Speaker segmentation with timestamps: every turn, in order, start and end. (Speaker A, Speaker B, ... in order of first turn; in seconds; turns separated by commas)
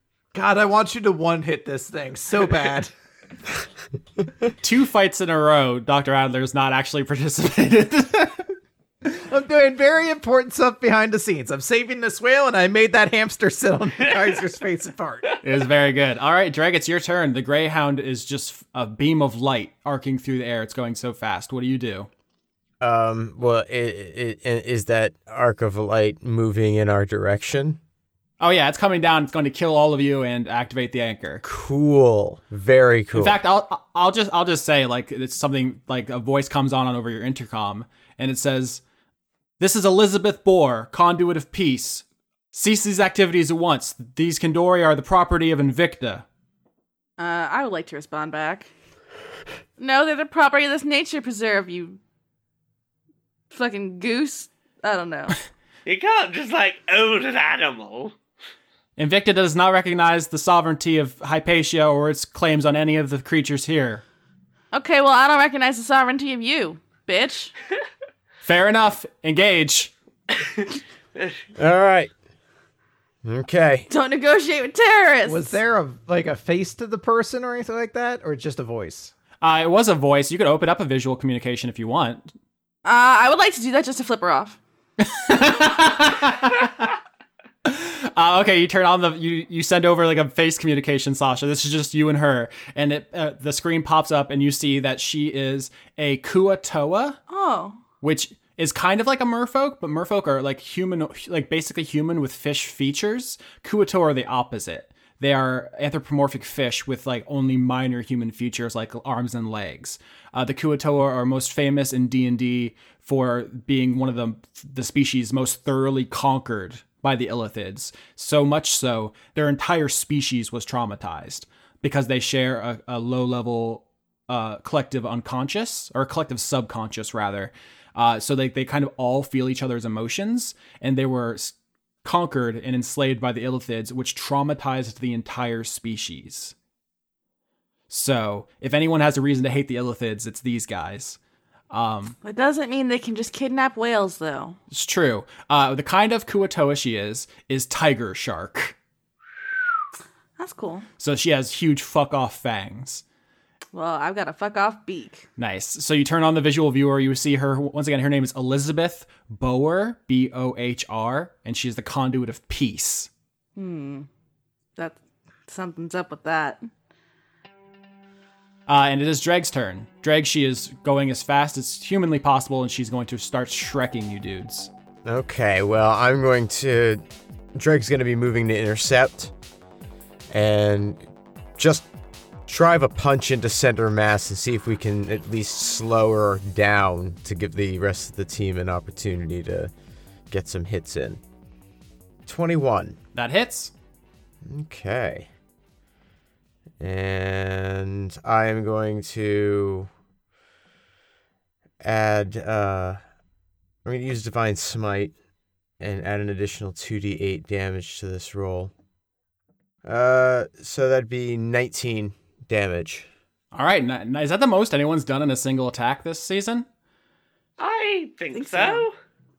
Speaker A: 0.3-2.9, Speaker B: 4.6-8.5, Speaker A: 9.2-15.3, Speaker B: 15.4-22.1, Speaker C: 22.8-27.8, Speaker B: 28.4-31.4, Speaker C: 31.4-33.4, Speaker B: 33.1-38.8, Speaker B: 39.6-46.2, Speaker D: 47.2-48.7, Speaker D: 49.8-52.0, Speaker D: 53.5-55.4, Speaker E: 55.9-58.1, Speaker B: 59.0-64.0, Speaker D: 64.7-67.5, Speaker B: 68.4-69.9, Speaker E: 70.4-70.7, Speaker C: 71.6-72.1, Speaker C: 73.2-73.9, Speaker D: 73.9-75.6, Speaker A: 75.3-79.1, Speaker B: 79.4-82.3, Speaker D: 82.8-84.6, Speaker B: 85.0-86.9, Speaker B: 87.7-97.2, Speaker D: 97.3-97.8, Speaker B: 98.0-136.5, Speaker B: 137.9-141.2, Speaker B: 141.7-142.2, Speaker D: 142.2-144.6, Speaker B: 144.7-148.8, Speaker D: 150.4-150.9, Speaker B: 151.0-153.0, Speaker D: 153.7-155.2, Speaker B: 155.4-163.1, Speaker D: 163.6-164.1, Speaker D: 164.8-166.7, Speaker B: 168.7-174.7, Speaker C: 175.1-177.0, Speaker C: 177.6-179.3, Speaker C: 180.3-181.0, Speaker C: 181.6-181.9, Speaker C: 182.5-189.7, Speaker C: 190.3-191.2, Speaker C: 192.3-193.0, Speaker B: 193.2-193.7, Speaker C: 194.4-195.3, Speaker C: 196.8-199.9, Speaker C: 201.8-203.0, Speaker C: 203.8-205.1, Speaker C: 205.8-208.7, Speaker C: 209.8-213.1, Speaker B: 213.5-216.7, Speaker E: 217.6-218.9, Speaker D: 218.3-218.9